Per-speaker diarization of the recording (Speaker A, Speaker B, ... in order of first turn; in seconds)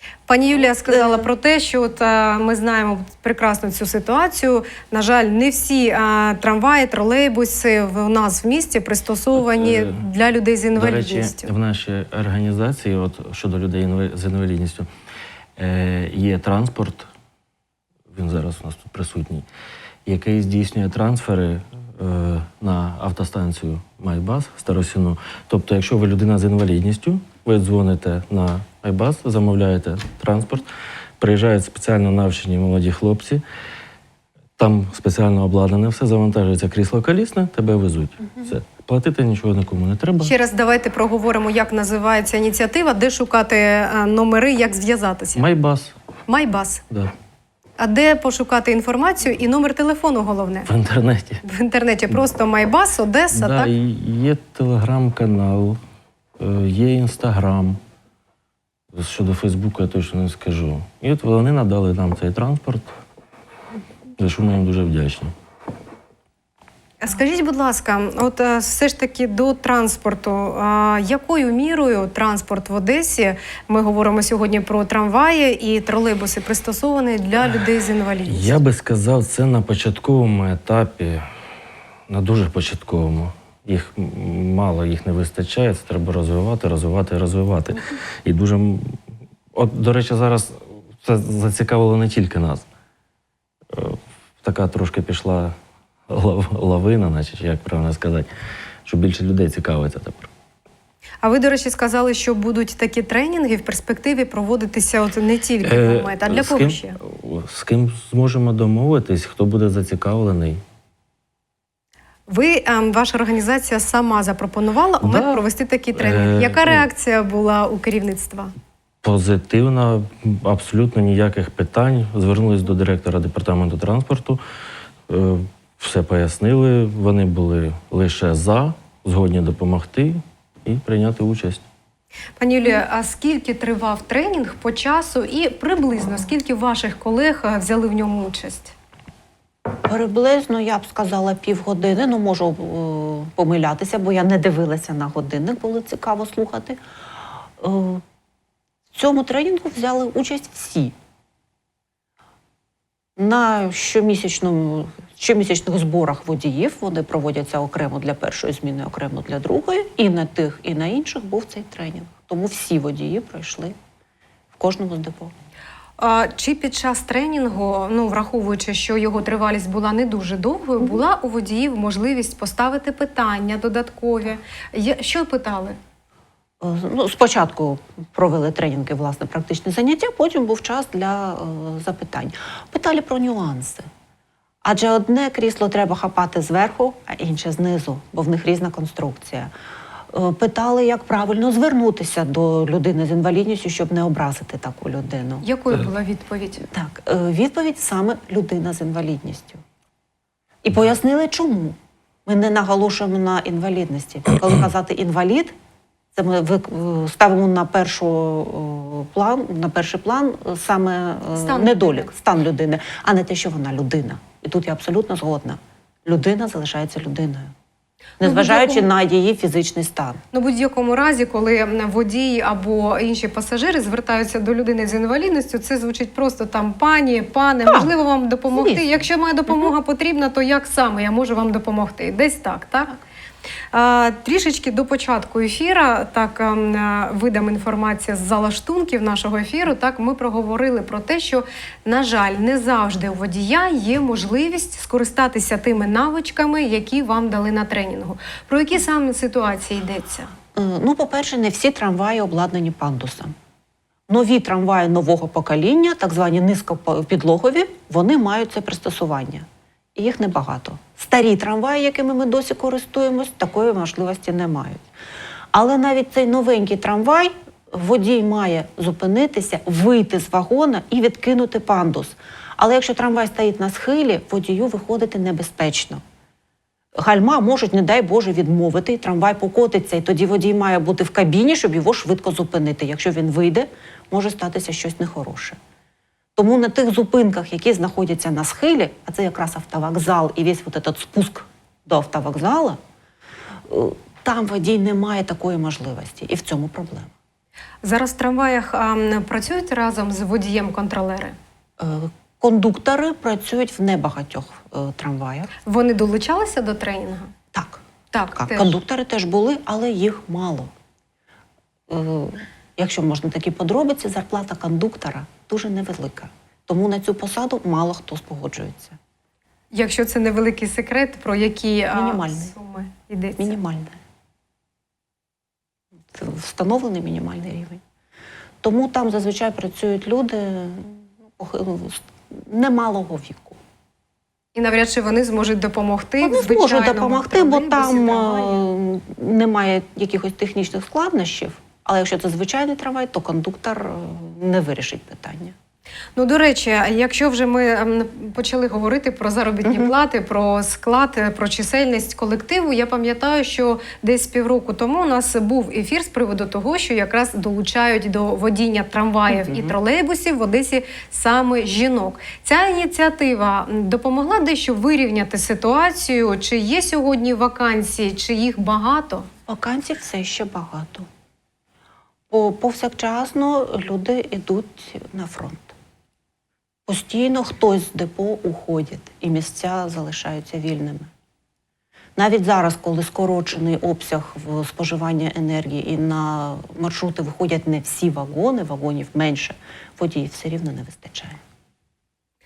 Speaker A: 0.3-11.5, 40.2-45.4, 46.3-46.8, 47.8-50.7, 51.4-53.7, 67.0-78.6, 101.2-107.0, 112.3-118.5, 132.4-138.7, 166.0-175.8, 195.4-196.7, 211.3-212.1, 218.2-218.9, 220.3-232.9, 233.7-250.3, 297.8-301.4, 305.6-307.3, 308.1-308.8, 319.7-323.6, 334.5-338.6, 346.1-369.3
Speaker B: 0.9-1.2, 139.9-146.8, 147.6-148.0, 148.9-150.9, 153.2-163.8, 164.5-165.3, 176.6-183.9, 184.6-189.5, 190.1-195.4, 196.7-199.6, 200.6-205.5, 206.1-217.5, 218.2-220.2, 227.6-227.9, 228.5-229.7, 250.5-253.3, 254.1-264.9, 265.5-276.0, 277.0-285.6, 286.4-292.8, 293.7-297.1, 301.8-305.5, 307.5-307.8, 308.3-310.7, 311.9-319.0, 321.9-322.5, 323.4-324.0, 326.1-327.8, 328.6-333.6, 336.2-345.5, 349.6-349.9, 359.3-359.8, 369.5-371.1, 372.3-375.7, 376.9-381.1, 382.1-391.4
Speaker C: 9.4-10.0, 10.7-14.9, 15.6-17.1, 18.1-19.4, 20.1-30.7, 31.2-33.4, 34.6-40.3, 45.3-45.9, 50.6-51.4, 53.3-55.8, 56.4-57.8, 58.9-62.9, 64.2-65.3, 78.3-81.3, 82.1-89.0, 89.5-92.6, 93.7-95.5, 96.1-98.3, 98.8-100.3, 105.6-110.6, 115.0-115.4, 115.9-116.9, 119.0-124.4, 125.1-131.6